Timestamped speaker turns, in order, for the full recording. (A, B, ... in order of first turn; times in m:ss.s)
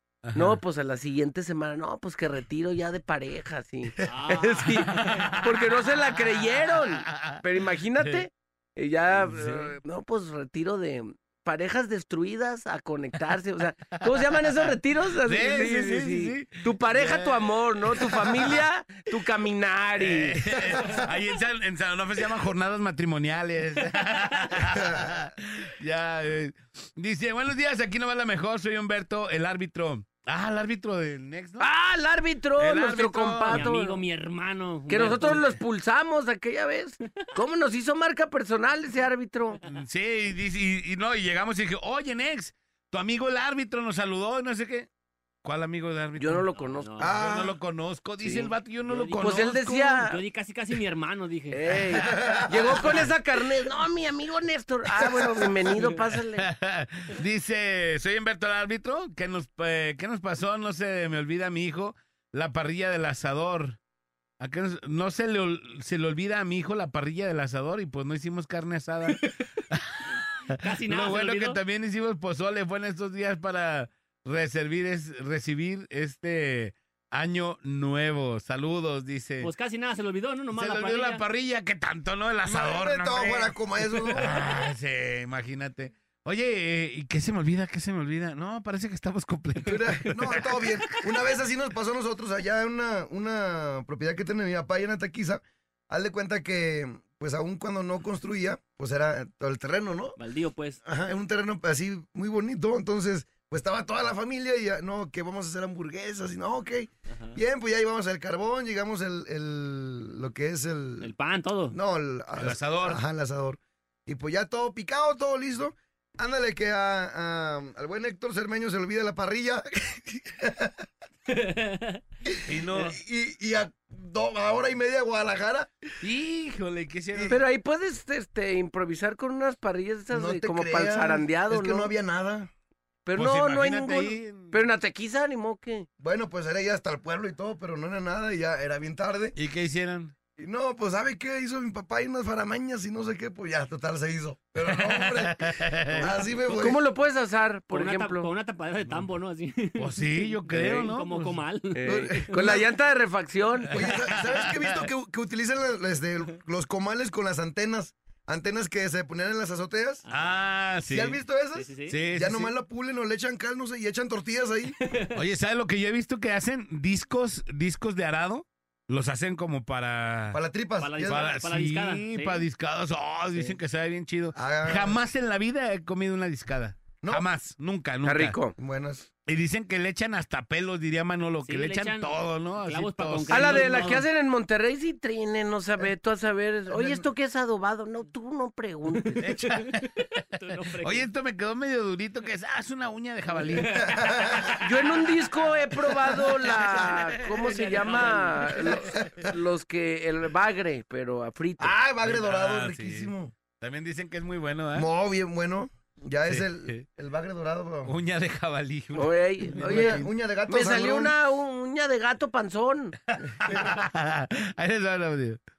0:00.2-0:00.6 A
0:00.3-0:20.4 B
0:04.0-0:05.3 C
0:05.0-0:07.4 A
0:08.0-0:08.2 A
0:09.1-0:09.7 A
0:13.9-0:18.6 A
0:20.0-0:31.7 A
0:24.6-0:25.1 D
0:31.6-0:34.0 B
0:32.6-0:33.7 A
0:33.5-0:35.5 C
0:34.9-0:39.6 B
0:35.1-0:35.4 A
0:39.6-0:44.9 A
0:45.4-0:46.4 A
0:46.2-0:47.1 B
0:46.5-0:47.1 C
0:47.0-0:47.6 D
0:47.0-0:50.0 A
0:48.2-0:50.2 B
0:50.0-0:51.6 C
0:51.5-0:56.5 B
0:52.1-0:52.7 D
0:56.4-1:03.8 A
1:04.4-1:19.5 A
1:10.6-1:11.6 C
1:19.4-1:21.2 C
1:20.5-1:23.5 A
1:22.5-1:24.4 D
1:24.1-1:30.8 A
1:29.6-1:40.2 D
1:40.2-1:40.8 C
1:40.8-1:51.1 D
1:47.1-1:47.4 C
1:51.0-1:51.8 C
1:51.7-2:00.8 D
1:52.4-1:53.0 A
2:01.3-2:02.0 C
2:02.3-2:05.7 D
2:02.4-2:03.0 A
2:06.0-2:07.4 A
2:07.1-2:07.4 D
2:07.3-2:11.9 B
2:10.1-2:12.5 D
2:13.0-2:15.9 B
2:13.2-2:14.7 A
2:16.0-2:19.3 D
2:19.3-2:20.1 A
2:20.4-2:26.8 D
2:24.7-2:26.6 A
2:26.5-2:28.3 B
2:27.7-2:32.3 C
2:29.8-2:31.4 A
2:30.5-2:30.8 B
2:31.7-2:33.7 B
2:31.8-2:32.6 D
2:33.7-2:40.0 D
2:33.7-2:34.9 A
2:40.1-2:41.2 A
2:40.9-2:44.8 D
2:41.5-2:42.0 C
2:41.9-2:42.5 A
2:45.1-2:50.4 A
2:50.3-2:51.3 D
2:50.8-2:52.4 C
2:51.0-2:58.4 A
2:54.3-2:55.0 D
2:57.0-2:57.3 D
2:58.0-2:58.5 B
2:58.6-2:59.1 D
2:59.3-3:04.0 A
3:01.4-3:04.0 C
3:03.3-3:09.2 B
3:06.7-3:07.0 D
3:09.0-3:11.1 C
3:09.2-3:09.9 A
3:10.8-3:13.8 A
3:13.5-3:13.9 C
3:13.7-3:14.6 D
3:14.6-3:21.7 B
3:16.1-3:18.3 A
3:17.2-3:19.0 C
3:21.6-3:23.3 D
3:22.0-3:24.9 A
3:24.7-3:27.9 D
3:26.2-3:26.8 A
3:27.8-3:30.0 A
3:28.9-3:32.9 B
3:29.6-3:31.2 D
3:33.1-3:35.4 A